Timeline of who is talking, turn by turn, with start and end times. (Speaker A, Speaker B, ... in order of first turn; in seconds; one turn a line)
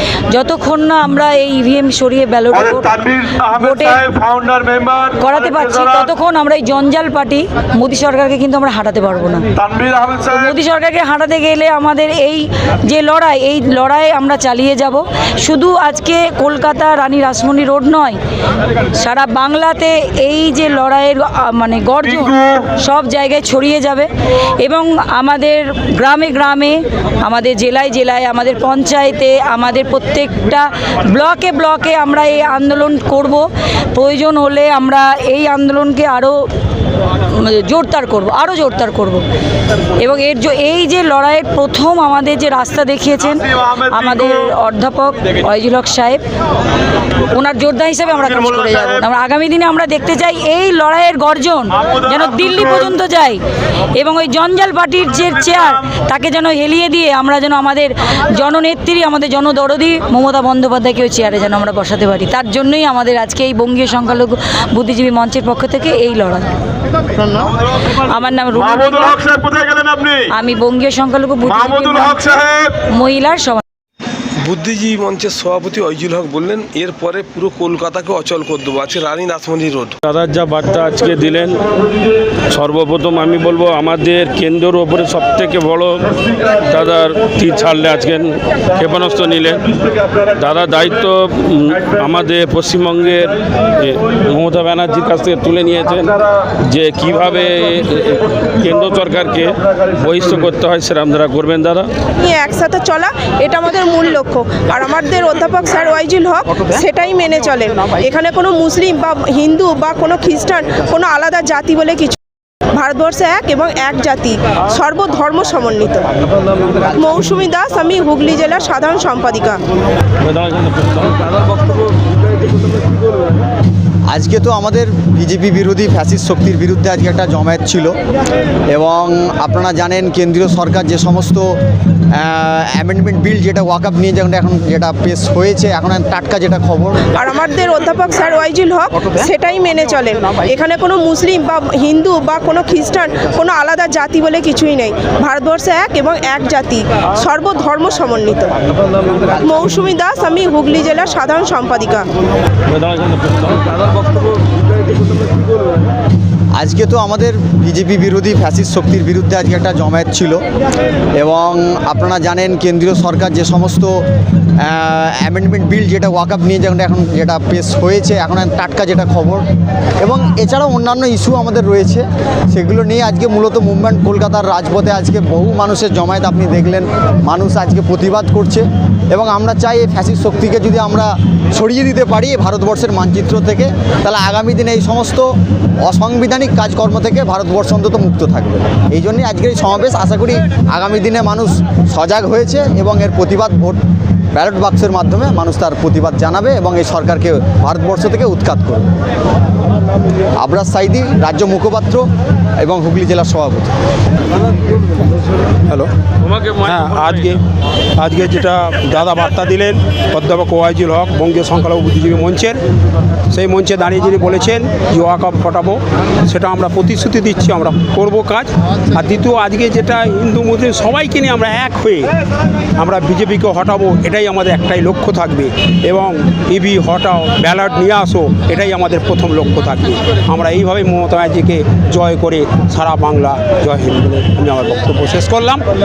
Speaker A: 0.2-4.0
Speaker B: 2.7-5.7
Speaker A: 5.2-9.5
Speaker B: 9.6-10.2
Speaker A: 10.3-18.2
Speaker A: 18.9-36.4
Speaker A: 37.2-39.2
Speaker A: 40.0-46.2
Speaker A: 47.3-53.4
Speaker A: 53.9-66.5
Speaker A: 67.9-69.3
Speaker B: 69.4-70.1
Speaker A: 70.2-73.6
Speaker C: 74.4-80.0
Speaker D: 80.0-81.7
Speaker D: 82.5-101.9
Speaker E: 102.2-112.2
Speaker E: 112.7-116.1
Speaker E: 116.8-119.6
Speaker D: 120.2-121.1
Speaker C: 122.6-122.9
Speaker F: 124.1-128.0
Speaker F: 128.7-131.6
Speaker F: 132.2-137.1
Speaker E: 137.1-148.6
Speaker E: 149.3-152.1
Speaker F: 156.6-160.4
Speaker F: 161.2-164.0
Speaker F: 164.6-169.4
Speaker F: 170.0-193.8
Speaker F: 194.3-198.9
Speaker F: 200.4-202.1
Speaker F: 202.6-203.7
Speaker D: 206.2-207.3
Speaker G: 206.6-207.4
Speaker G: 208.0-212.6
Speaker G: 213.3-222.1
Speaker G: 222.8-235.6